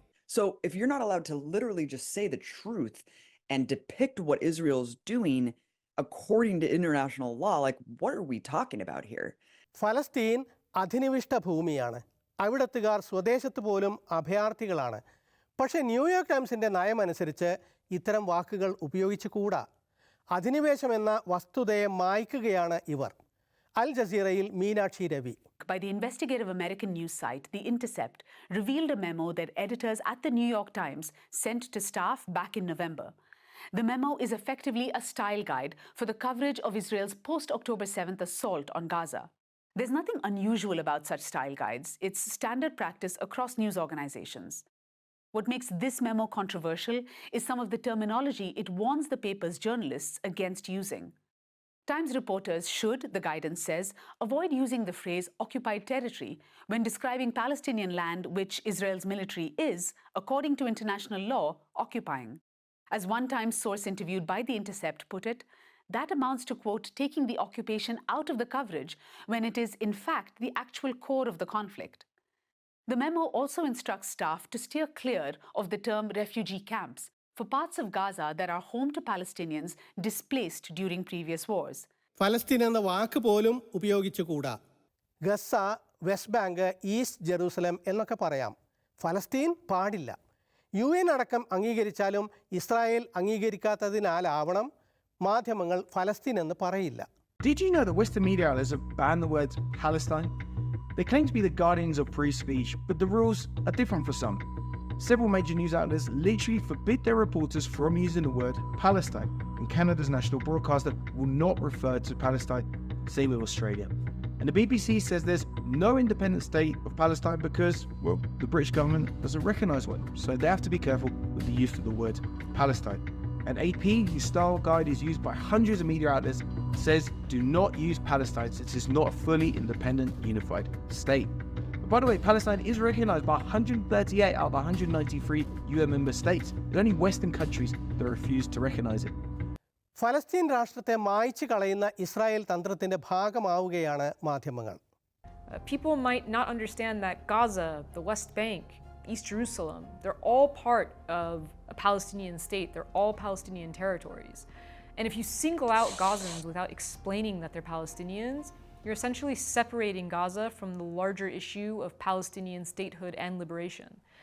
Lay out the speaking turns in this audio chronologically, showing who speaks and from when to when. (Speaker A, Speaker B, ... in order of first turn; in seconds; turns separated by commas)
Speaker A: 0.3-9.3, Speaker B: 9.8-15.0, Speaker B: 15.6-19.6, Speaker B: 20.3-23.1, Speaker B: 23.8-25.4, Speaker C: 25.6-33.1, Speaker C: 33.7-44.6, Speaker C: 45.3-51.1, Speaker C: 51.9-62.4, Speaker C: 62.9-72.0, Speaker C: 72.9-81.9, Speaker B: 82.2-84.5, Speaker B: 85.2-90.1, Speaker B: 90.8-94.7, Speaker B: 95.2-97.0, Speaker D: 97.4-100.3, Speaker D: 101.0-104.4, Speaker D: 105.0-131.3, Speaker D: 131.8-139.1, Speaker B: 140.0-144.8, Speaker E: 145.5-164.0